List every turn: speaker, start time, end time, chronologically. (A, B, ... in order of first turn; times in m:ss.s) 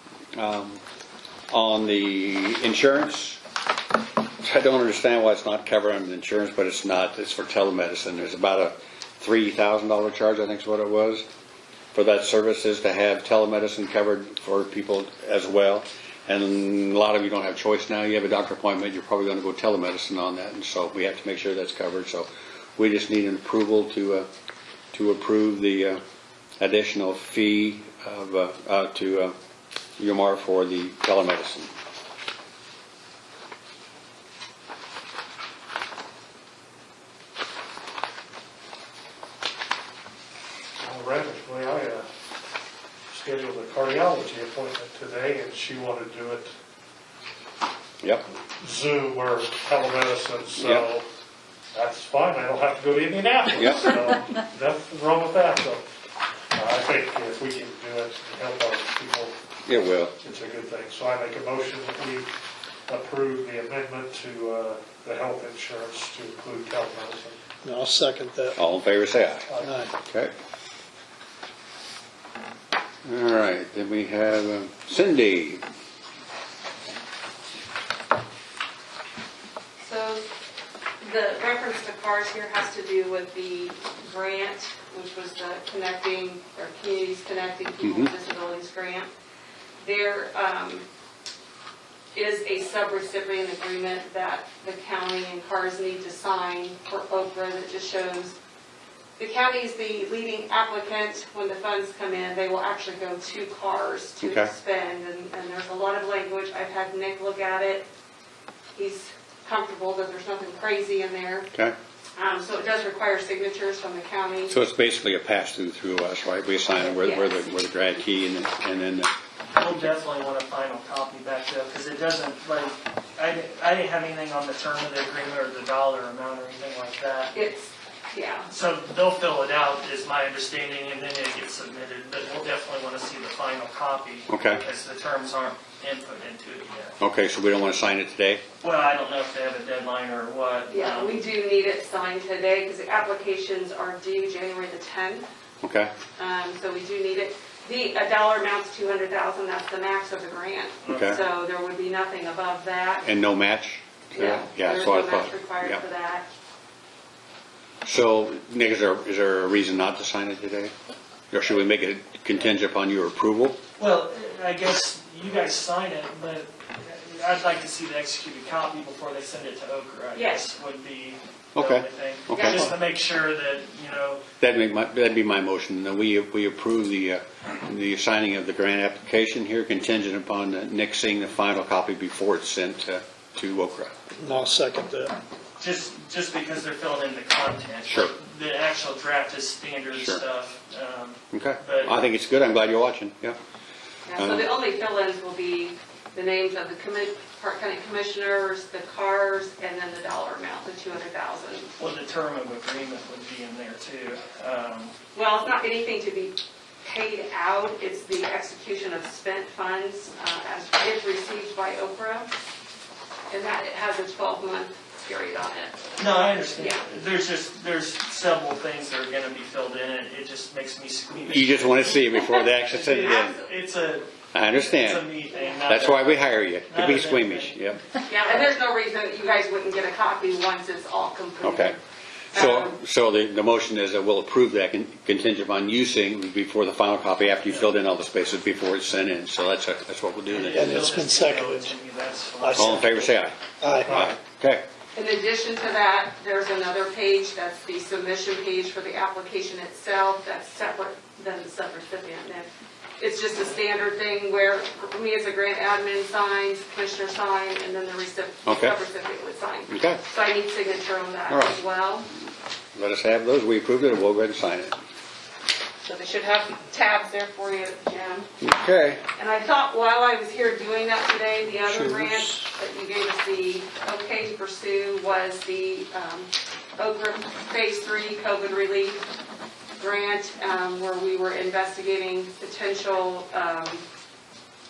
0:00.4-0:00.8 A
0:01.5-0:03.4 A
0:04.4-0:11.2 A
0:11.9-0:24.3 A
0:24.9-0:26.0 A
0:26.6-0:29.3 A
0:30.0-0:31.7 A
0:40.8-0:42.0 B
0:43.1-0:46.5 B
0:48.0-0:48.3 A
0:48.6-0:51.0 B
0:50.6-0:50.8 A
0:51.7-0:55.8 B
0:53.6-0:54.1 A
0:56.5-1:02.3 B
0:59.6-1:00.1 A
1:02.9-1:07.4 B
1:07.6-1:08.6 C
1:08.6-1:09.5 A
1:09.5-1:09.8 B
1:09.6-1:09.9 C
1:10.0-1:10.3 A
1:13.0-1:15.6 A
1:19.8-1:20.2 D
1:21.0-1:29.1 D
1:27.8-1:28.1 A
1:29.8-1:30.8 D
1:32.1-1:38.3 D
1:39.2-1:47.9 D
1:44.2-1:44.5 A
1:48.8-1:51.5 D
1:52.2-1:54.6 D
1:54.5-1:59.1 A
1:56.8-1:57.4 D
1:59.6-2:07.3 E
2:07.3-2:08.5 D
2:08.5-2:16.9 E
2:14.3-2:14.6 A
2:17.0-2:18.4 A
2:18.6-2:21.2 E
2:20.7-2:25.3 D
2:25.6-2:25.9 A
2:26.2-2:33.0 D
2:30.8-2:31.2 E
2:30.9-2:31.2 A
2:33.0-2:35.8 A
2:34.1-2:36.2 D
2:37.8-2:40.7 A
2:41.3-2:43.6 A
2:43.8-2:54.2 E
2:50.1-2:50.4 D
2:51.5-2:52.7 A
2:52.3-2:52.7 D
2:54.4-3:03.9 A
3:04.2-3:05.1 C
3:05.6-3:11.9 E
3:09.9-3:10.2 A
3:11.3-3:13.4 A
3:14.0-3:21.7 D
3:14.2-3:14.5 A
3:21.8-3:24.9 E
3:25.1-3:32.3 D
3:33.3-3:35.8 D
3:36.0-3:47.6 E
3:36.6-3:36.8 D
3:41.3-3:43.4 A
3:44.3-3:45.1 A
3:45.7-3:47.8 A
3:48.1-3:51.8 D
3:51.4-3:51.8 A
3:52.3-4:00.7 A
3:52.3-3:52.8 D
4:00.3-4:03.1 E
4:00.5-4:01.7 C
4:02.4-4:03.0 C
4:02.6-4:04.6 A
4:03.6-4:04.1 C
4:03.8-4:04.1 B
4:04.9-4:22.1 D
4:18.4-4:18.8 A
4:19.7-4:20.0 A
4:21.3-4:21.6 A
4:22.7-4:24.8 A
4:25.8-4:28.3 D
4:28.4-4:29.0 A
4:29.2-4:39.0 D
4:31.6-4:32.4 C
4:39.8-4:43.8 D